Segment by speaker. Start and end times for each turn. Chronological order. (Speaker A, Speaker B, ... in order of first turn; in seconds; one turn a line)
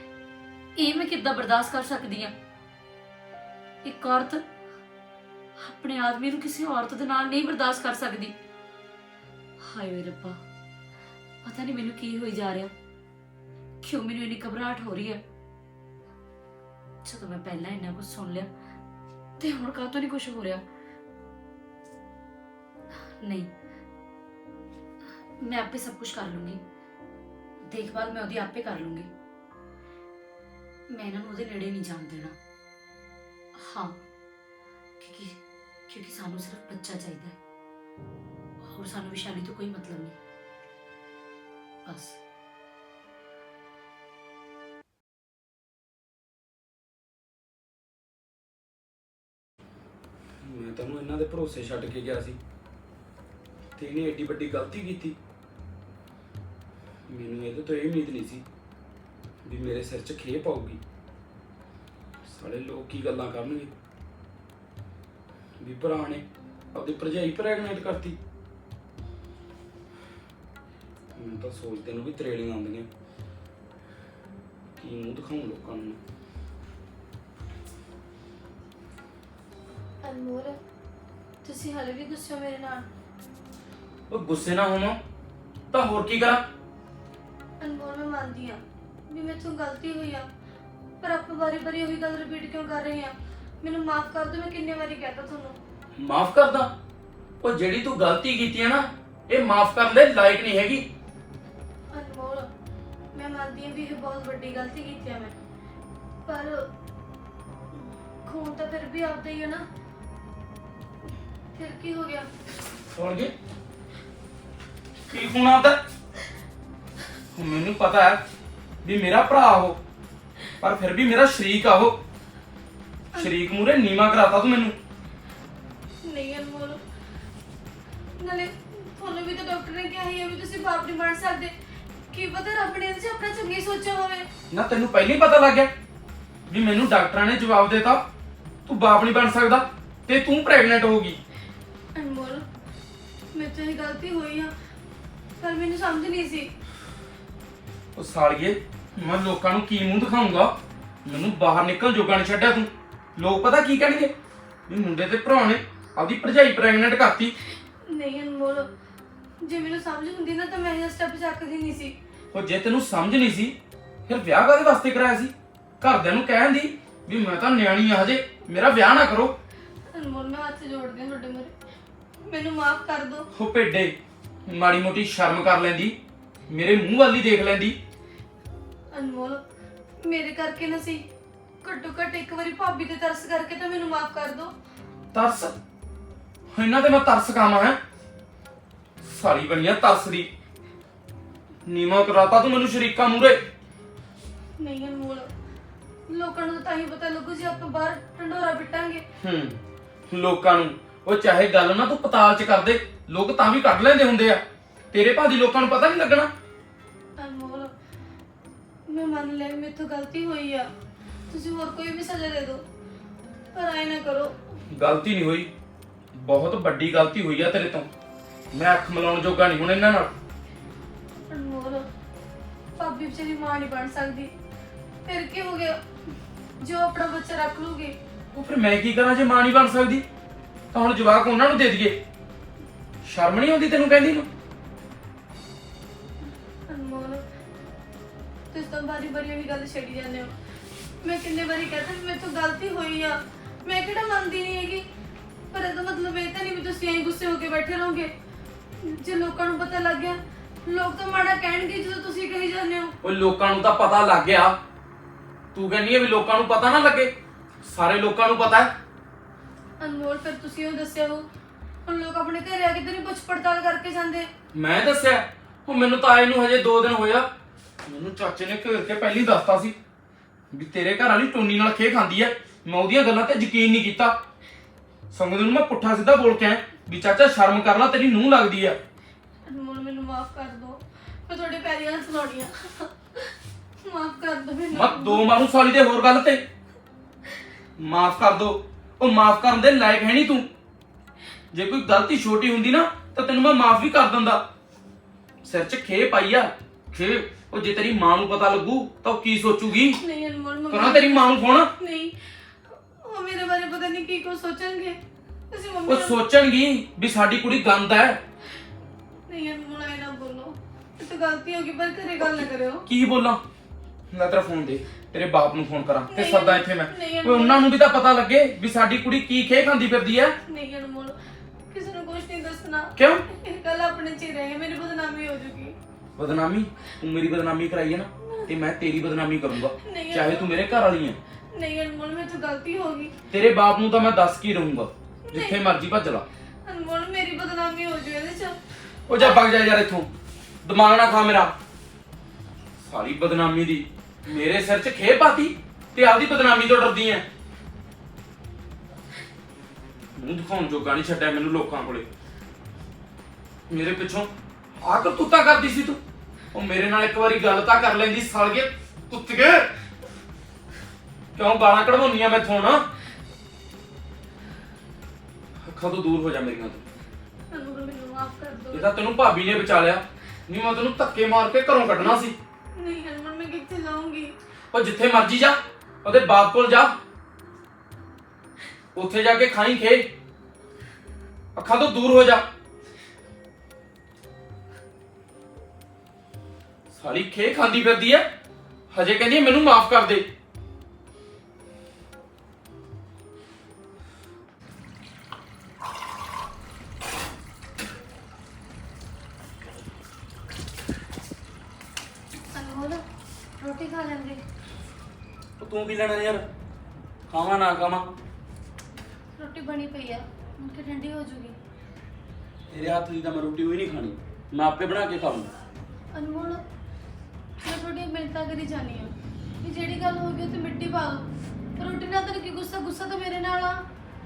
Speaker A: 0.8-2.3
Speaker A: 3.8-4.4
Speaker A: 5.6-8.3
Speaker A: 9.6-10.4
Speaker A: 11.4-12.7
Speaker A: 13.8-15.2
Speaker A: 17.0-18.5
Speaker A: 19.4-20.6
Speaker A: 23.2-23.5
Speaker A: 25.4-26.6
Speaker A: 27.7-29.1
Speaker A: 30.9-32.4
Speaker A: 33.5-34.0
Speaker A: 35.0-35.4
Speaker A: 35.9-37.4
Speaker A: 38.6-40.2
Speaker A: 41.9-42.2
Speaker B: 50.4-52.4
Speaker B: 53.8-55.2
Speaker B: 57.1-58.4
Speaker B: 59.4-60.8
Speaker B: 62.2-63.7
Speaker B: 65.6-68.2
Speaker B: 71.1-72.9
Speaker B: 74.8-76.0
Speaker C: 80.0-80.6
Speaker C: 81.4-82.9
Speaker B: 84.1-85.0
Speaker B: 85.7-86.4
Speaker C: 87.6-90.3
Speaker C: 91.0-95.6
Speaker B: 96.0-96.7
Speaker B: 97.4-100.8
Speaker C: 101.9-102.5
Speaker C: 103.1-105.3
Speaker C: 106.2-106.7
Speaker C: 108.2-109.6
Speaker C: 111.5-112.3
Speaker B: 112.9-113.3
Speaker B: 115.1-115.8
Speaker B: 117.3-118.2
Speaker B: 118.8-119.8
Speaker B: 120.6-122.0
Speaker B: 123.2-124.7
Speaker C: 126.0-126.8
Speaker C: 128.2-131.5
Speaker C: 132.1-134.2
Speaker B: 134.5-135.7
Speaker B: 136.5-138.0
Speaker B: 138.7-141.2
Speaker C: 141.9-142.4
Speaker C: 143.3-144.5
Speaker C: 145.4-146.5
Speaker B: 147.9-150.5
Speaker B: 151.0-154.1
Speaker B: 154.7-157.3
Speaker C: 157.8-158.7
Speaker C: 159.4-161.9
Speaker B: 162.3-163.5
Speaker B: 164.1-169.3
Speaker C: 169.9-171.5
Speaker C: 172.2-173.3
Speaker B: 173.3-173.9
Speaker B: 174.5-175.9
Speaker B: 176.5-177.8
Speaker C: 178.9-179.4
Speaker C: 180.0-181.0
Speaker C: 181.6-184.5
Speaker B: 185.1-185.6
Speaker B: 186.5-187.8
Speaker B: 189.0-190.3
Speaker B: 191.7-193.4
Speaker C: 194.6-195.3
Speaker C: 196.1-199.0
Speaker B: 199.2-199.6
Speaker B: 200.1-206.3
Speaker C: 207.2-207.7
Speaker C: 208.9-210.7
Speaker C: 211.3-212.6
Speaker C: 213.5-214.3
Speaker B: 214.7-215.5
Speaker B: 216.1-217.9
Speaker B: 218.5-220.1
Speaker C: 221.3-221.9
Speaker C: 222.8-224.3
Speaker C: 225.1-225.8
Speaker C: 226.6-227.9
Speaker B: 228.3-230.0
Speaker B: 230.7-231.9
Speaker B: 233.0-234.3
Speaker C: 236.7-237.2
Speaker C: 238.5-240.3
Speaker C: 241.0-244.8
Speaker C: 245.5-248.1
Speaker C: 248.8-252.9
Speaker B: 253.0-254.6
Speaker B: 255.5-258.7
Speaker C: 259.8-261.2
Speaker C: 261.8-264.3
Speaker B: 264.5-267.3
Speaker B: 267.8-269.7
Speaker B: 270.5-274.2
Speaker B: 275.1-278.8
Speaker C: 279.4-285.3
Speaker B: 284.7-286.4
Speaker B: 287.8-290.5
Speaker B: 291.5-294.4
Speaker B: 295.4-300.0
Speaker C: 299.9-305.0
Speaker B: 300.7-301.7
Speaker C: 305.5-306.2
Speaker B: 305.9-308.2
Speaker C: 309.3-312.8
Speaker B: 312.2-313.4
Speaker B: 314.1-320.3
Speaker C: 316.1-317.6
Speaker C: 320.4-321.2
Speaker C: 321.7-325.7
Speaker B: 322.9-323.2
Speaker B: 326.2-331.2
Speaker C: 329.8-330.6
Speaker C: 331.5-333.1
Speaker B: 333.3-336.2
Speaker C: 335.3-335.6
Speaker C: 336.6-338.6
Speaker B: 339.1-340.1
Speaker C: 339.1-339.4
Speaker B: 340.6-341.5
Speaker B: 342.8-347.2
Speaker B: 350.1-352.1
Speaker B: 353.7-354.3
Speaker B: 354.8-356.0
Speaker B: 356.5-359.7
Speaker B: 361.4-362.8
Speaker B: 365.7-366.8
Speaker C: 367.5-368.9
Speaker B: 368.7-372.3
Speaker C: 372.7-374.3
Speaker B: 374.7-376.9
Speaker B: 378.9-380.1
Speaker B: 381.6-382.4
Speaker B: 386.9-388.2
Speaker B: 388.9-390.2
Speaker C: 402.5-403.0
Speaker C: 403.6-404.4
Speaker B: 405.6-406.4
Speaker B: 407.3-408.1
Speaker C: 409.4-411.6
Speaker B: 412.7-415.5
Speaker C: 416.1-416.6
Speaker C: 417.6-419.1
Speaker C: 419.6-423.8